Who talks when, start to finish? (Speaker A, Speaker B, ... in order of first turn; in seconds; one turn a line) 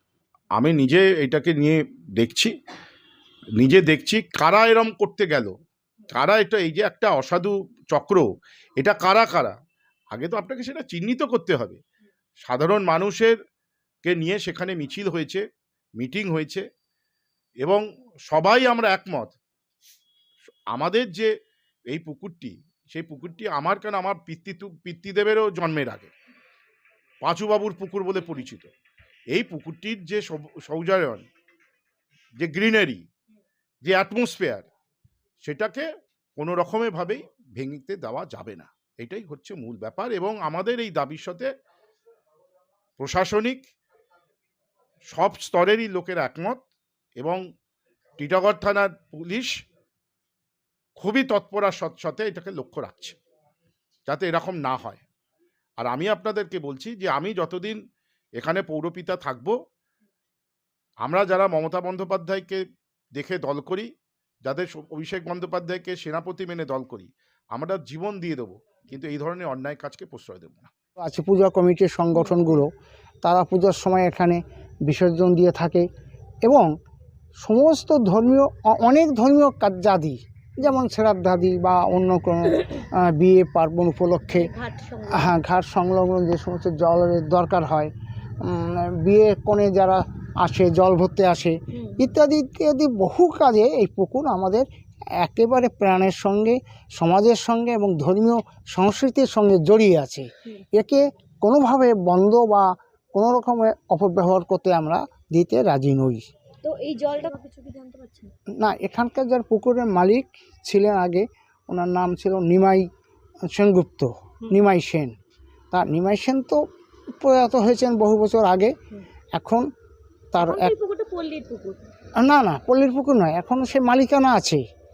Speaker A: 0.6-2.5
Speaker A: 3.6-5.5
Speaker A: 6.1-8.2
Speaker A: 8.8-9.5
Speaker A: 10.1-11.8
Speaker A: 12.4-13.4
Speaker A: 14.0-15.4
Speaker A: 16.0-16.6
Speaker A: 17.6-19.3
Speaker A: 20.7-21.3
Speaker A: 21.9-26.1
Speaker A: 27.2-28.7
Speaker A: 29.3-31.2
Speaker A: 32.4-33.0
Speaker A: 33.8-34.6
Speaker A: 35.4-41.5
Speaker A: 43.0-43.6
Speaker A: 45.1-46.6
Speaker A: 48.2-49.5
Speaker A: 51.0-53.1
Speaker A: 54.1-55.0
Speaker A: 55.8-57.8
Speaker A: 58.4-59.5
Speaker A: 61.0-62.6
Speaker A: 63.1-63.9
Speaker A: 64.4-70.7
Speaker B: 71.0-72.7
Speaker C: 72.2-72.5
Speaker B: 73.2-75.8
Speaker B: 76.4-76.7
Speaker B: 77.4-84.5
Speaker C: 84.3-85.3
Speaker B: 85.1-87.9
Speaker B: 88.4-94.7
Speaker C: 91.7-92.0
Speaker B: 95.2-106.2
Speaker C: 106.6-108.3
Speaker B: 108.6-112.8
Speaker B: 113.5-115.1
Speaker B: 115.7-116.6
Speaker B: 117.2-118.7
Speaker B: 119.3-119.6
Speaker B: 120.3-120.7
Speaker C: 120.4-121.8
Speaker B: 122.2-124.6